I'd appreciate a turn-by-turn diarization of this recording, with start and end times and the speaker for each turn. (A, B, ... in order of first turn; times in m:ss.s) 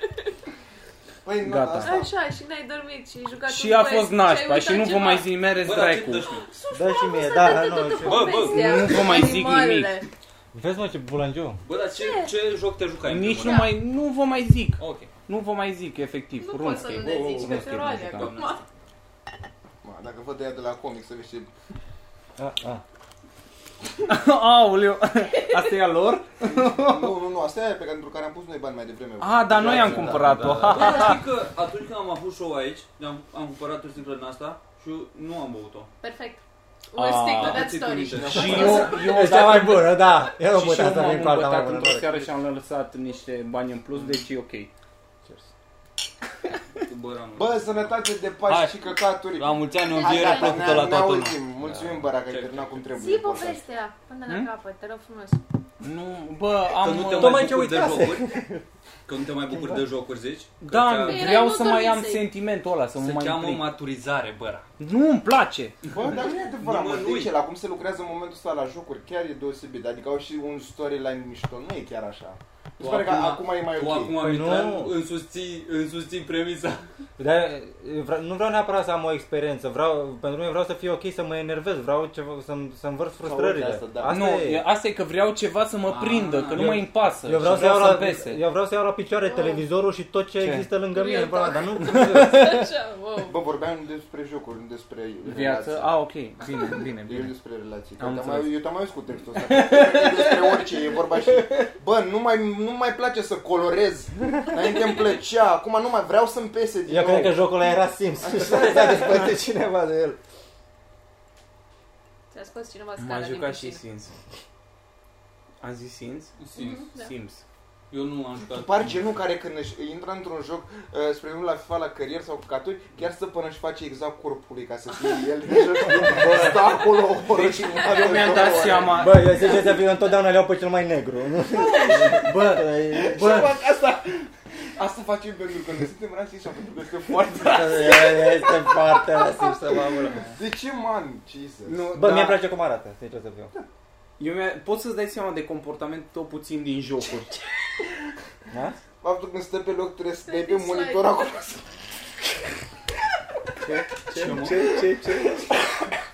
0:01.2-0:02.1 A
0:01.4-0:02.0 B
0:01.8-0:05.3 C
0:03.5-0:06.3 B
0:05.6-0:06.5 D
0:06.3-0:10.1 C
0:06.7-0:08.5 E
0:08.0-0:09.1 D
0:08.5-0:10.0 B
0:10.5-0:11.6 E
0:11.6-0:13.7 D
0:11.8-0:12.3 C
0:13.1-0:18.2 B
0:13.4-0:13.7 C
0:14.8-0:15.1 D
0:16.4-0:18.6 C
0:16.8-0:18.6 D
0:17.4-0:18.1 E
0:19.8-0:21.5 A
0:22.4-0:22.8 E
0:24.0-0:27.1 B
0:25.4-0:25.7 C
0:26.4-0:30.6 A
0:29.2-0:31.2 B
0:29.6-0:31.0 E
0:30.6-0:35.9 D
0:36.0-0:38.9 C
0:36.9-0:37.7 B
0:37.3-0:38.8 D
0:38.1-0:39.1 A
0:38.3-0:44.7 B
0:38.7-0:42.2 E
0:46.8-0:48.0 D
0:47.4-0:53.6 A
0:48.5-0:51.4 D
0:49.8-0:51.0 C
0:51.7-0:51.9 E
0:52.2-0:53.0 D
0:52.9-0:55.4 C
0:55.8-0:57.7 B
0:56.7-0:58.4 D
0:57.2-0:58.6 E
0:59.1-1:01.4 D
1:00.6-1:03.7 B
1:01.0-1:02.3 C
1:03.0-1:04.7 D
1:04.8-1:05.8 B
1:05.9-1:07.4 D
1:05.9-1:14.2 A
1:12.8-1:16.8 D
1:14.2-1:15.0 E
1:17.2-1:24.6 E
1:23.2-1:24.2 A
1:24.1-1:28.4 B
1:25.9-1:26.8 D
1:26.6-1:32.7 E
1:29.2-1:29.6 C
1:30.4-1:30.7 B
1:30.9-1:33.4 C
1:31.8-1:32.5 B
1:33.2-1:35.9 A
1:35.2-1:37.4 B
1:37.0-1:47.5 A
1:38.0-1:38.6 B
1:39.4-1:40.7 B
1:46.9-1:50.2 E
1:47.0-1:47.3 B
1:48.2-1:49.4 A
1:52.3-1:53.8 C
1:53.0-1:54.1 B
1:55.6-1:56.4 B
1:56.4-1:56.9 D
1:56.6-1:57.1 C
1:57.0-1:57.4 B
1:57.9-1:59.1 D
1:58.5-2:09.2 A
2:05.9-2:09.5 B
2:08.9-2:13.6 E
2:11.6-2:12.7 B
2:11.6-2:12.2 A
2:12.8-2:19.0 A
2:17.4-2:20.2 E
2:19.0-2:19.7 C
2:20.3-2:22.0 A
2:21.7-2:22.4 B
2:21.9-2:23.5 E
2:24.2-2:27.4 B
2:28.5-2:28.8 E
2:29.0-2:31.7 A
2:30.2-2:31.2 C
2:33.6-2:35.5 B
2:34.1-2:34.8 D